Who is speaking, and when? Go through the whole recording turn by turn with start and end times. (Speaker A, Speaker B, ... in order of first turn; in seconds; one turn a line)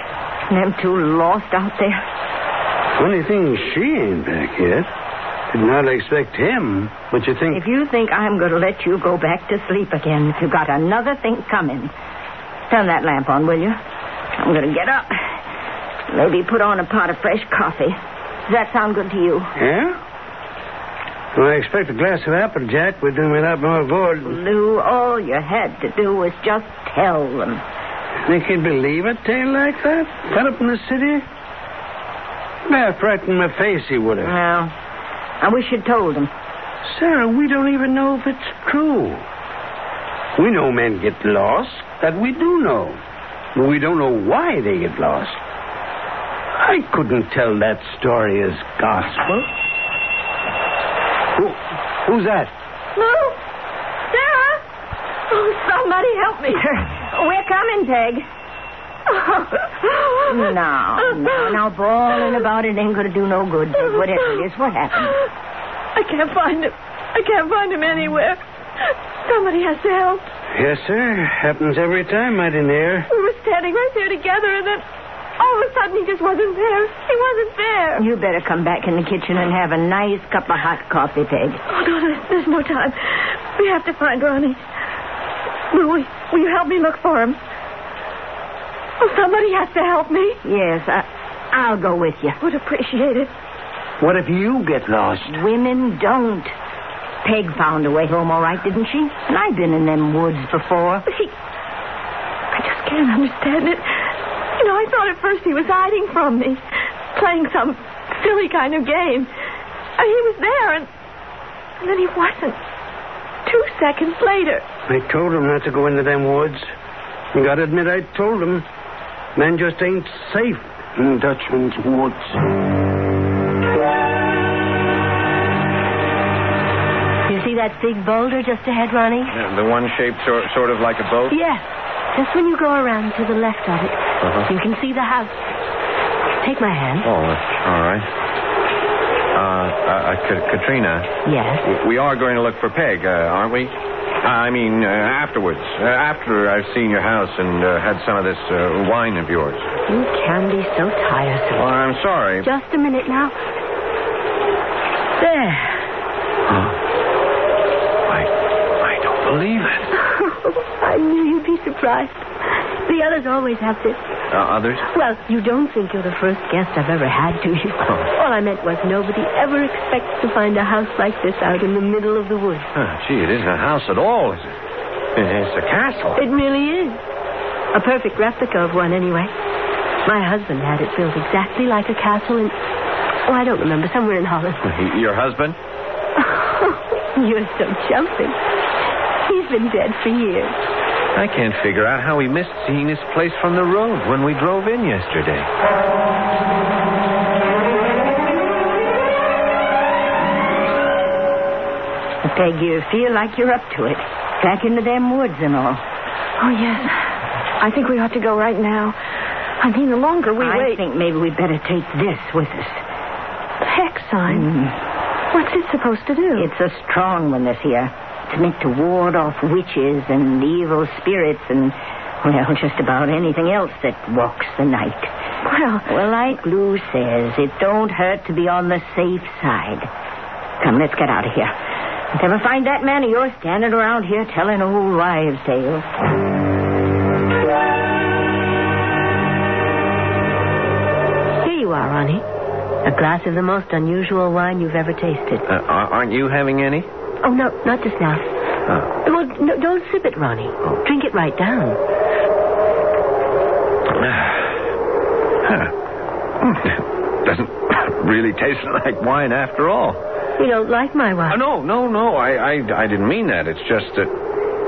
Speaker A: 0.5-2.0
Speaker B: 3.0-4.9
Speaker B: 5.5-7.6
Speaker A: 7.5-11.9
Speaker A: 12.7-13.8
Speaker A: 14.4-15.4
Speaker A: 16.1-19.5
Speaker B: 19.6-20.0
Speaker B: 21.3-24.4
Speaker A: 24.2-27.6
Speaker B: 28.2-31.2
Speaker B: 32.7-34.3
Speaker A: 34.2-34.7
Speaker A: 35.4-36.3
Speaker B: 36.9-39.2
Speaker B: 40.4-43.0
Speaker B: 43.5-45.4
Speaker B: 46.6-49.5
Speaker B: 51.4-52.5
Speaker C: 52.9-53.4
Speaker C: 54.1-54.6
Speaker C: 55.3-56.7
Speaker A: 56.6-58.2
Speaker C: 59.1-60.4
Speaker A: 60.2-65.2
Speaker C: 61.0-61.6
Speaker C: 65.9-68.4
Speaker C: 69.2-70.3
Speaker B: 70.5-73.1
Speaker C: 73.1-74.8
Speaker C: 75.4-78.0
Speaker A: 78.0-81.6
Speaker C: 81.7-84.6
Speaker C: 85.7-87.4
Speaker C: 89.0-90.4
Speaker A: 90.4-92.4
Speaker C: 92.4-93.3
Speaker B: 94.0-95.4
Speaker A: 95.2-96.5
Speaker A: 97.2-101.0
Speaker C: 101.1-101.3
Speaker C: 102.5-106.6
Speaker C: 107.1-109.3
Speaker C: 110.0-110.9
Speaker C: 111.8-112.6
Speaker C: 113.4-114.6
Speaker B: 114.9-116.7
Speaker B: 117.3-118.7
Speaker B: 119.3-122.4
Speaker D: 127.3-129.3
Speaker E: 129.3-131.3
Speaker D: 131.3-135.3
Speaker E: 134.2-134.5
Speaker D: 136.4-137.1
Speaker E: 137.0-138.1
Speaker E: 139.3-141.1
Speaker D: 141.2-141.7
Speaker E: 141.6-149.6
Speaker D: 149.9-151.7
Speaker E: 151.6-152.4
Speaker D: 152.4-153.3
Speaker D: 155.2-155.8
Speaker E: 156.5-156.8
Speaker E: 158.8-159.9
Speaker D: 160.0-162.2
Speaker D: 162.8-164.0
Speaker E: 164.3-164.9
Speaker D: 164.9-172.7
Speaker E: 172.7-174.5
Speaker E: 175.2-176.2
Speaker D: 176.2-177.0
Speaker D: 177.7-179.3
Speaker D: 180.1-182.6
Speaker D: 183.2-184.6
Speaker E: 184.6-185.6
Speaker D: 186.3-188.4
Speaker D: 189.2-190.6
Speaker E: 191.1-195.5
Speaker A: 202.2-205.8
Speaker C: 206.4-209.0
Speaker C: 209.6-210.8
Speaker A: 210.4-212.8
Speaker C: 213.6-214.5
Speaker A: 214.3-214.8
Speaker C: 215.3-216.5
Speaker A: 216.3-225.1
Speaker C: 225.4-225.9
Speaker A: 225.9-229.9
Speaker A: 230.6-231.5
Speaker A: 232.1-235.8
Speaker D: 241.4-242.2
Speaker D: 242.8-245.4
Speaker E: 245.5-246.9
Speaker D: 247.2-248.3
Speaker D: 249.0-251.8
Speaker E: 253.9-254.6
Speaker E: 255.4-255.7
Speaker E: 256.4-260.0
Speaker D: 260.4-261.4
Speaker E: 261.3-264.1